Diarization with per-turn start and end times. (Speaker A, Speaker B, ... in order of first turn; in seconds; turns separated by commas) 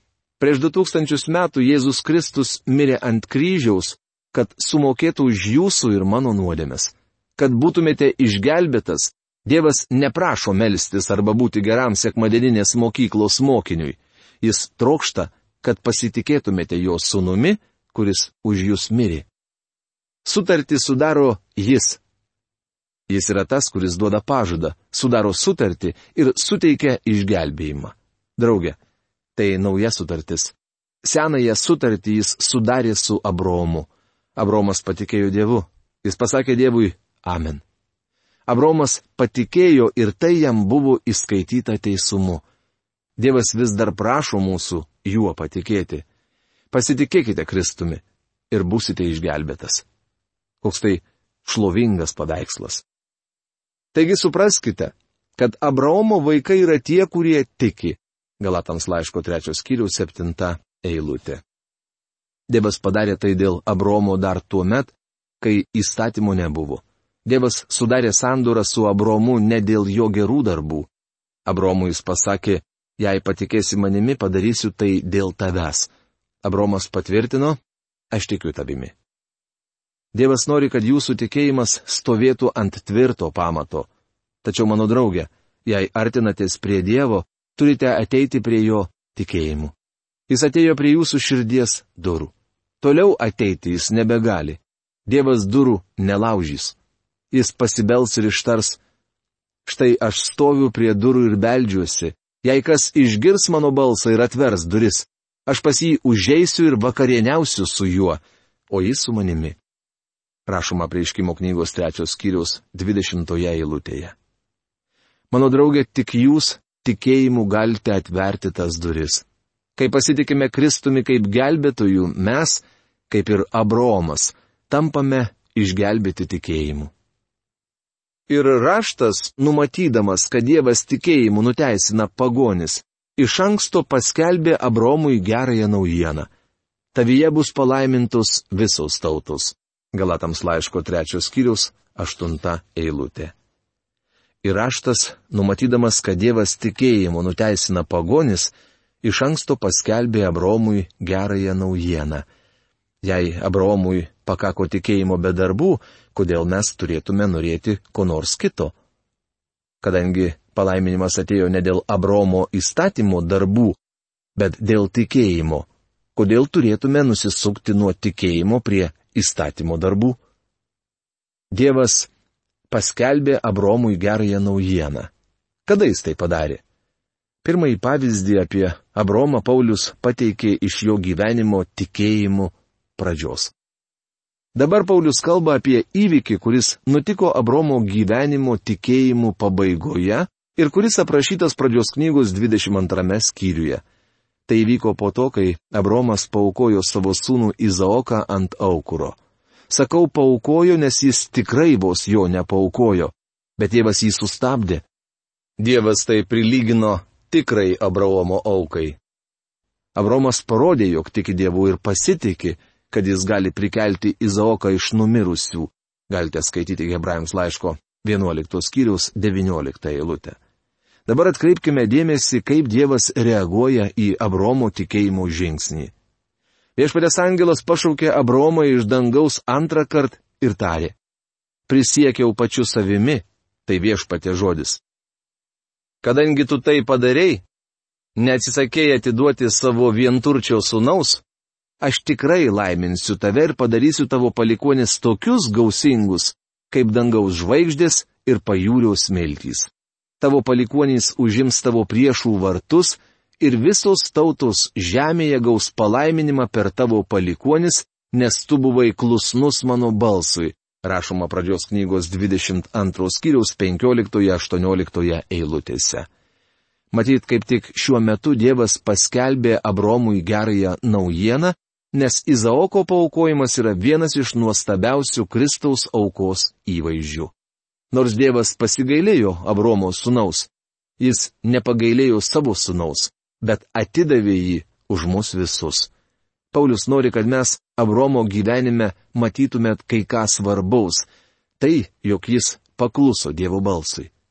Speaker A: 0.4-19.3, Speaker A: 20.2-22.0, Speaker A: 23.1-28.8, Speaker A: 29.4-37.6, Speaker A: 38.5-42.4, Speaker A: 43.2-46.0, Speaker A: 46.7-49.8, Speaker A: 50.6-52.8, Speaker A: 53.9-61.4, Speaker A: 62.5-70.9, Speaker A: 71.5-75.9, Speaker A: 76.4-77.6, Speaker A: 78.1-78.9, Speaker A: 80.1-83.9, Speaker A: 84.4-89.7, Speaker A: 90.3-96.8, Speaker A: 97.3-98.8, Speaker A: 99.6-109.6, Speaker A: 110.5-114.1, Speaker A: 115.3-119.2, Speaker A: 119.8-126.9, Speaker A: 128.3-136.3, Speaker A: 136.9-143.3, Speaker A: 144.4-152.2, Speaker A: 153.0-158.7, Speaker A: 159.8-163.8, Speaker A: 164.3-170.2, Speaker A: 171.5-172.1, Speaker A: 172.7-175.1, Speaker A: 175.7-176.6, Speaker A: 177.4-183.5, Speaker A: 184.5-193.8, Speaker A: 194.5-199.2, Speaker A: 199.7-204.8, Speaker A: 205.6-209.0, Speaker A: 209.9-220.4, Speaker A: 221.1-225.9, Speaker A: 226.8-230.9, Speaker A: 231.7-234.8, Speaker A: 236.0-237.4, Speaker A: 238.2-241.2, Speaker A: 241.8-266.1, Speaker A: 266.9-277.3, Speaker A: 277.9-285.9, Speaker A: 286.5-291.1, Speaker A: 291.6-294.1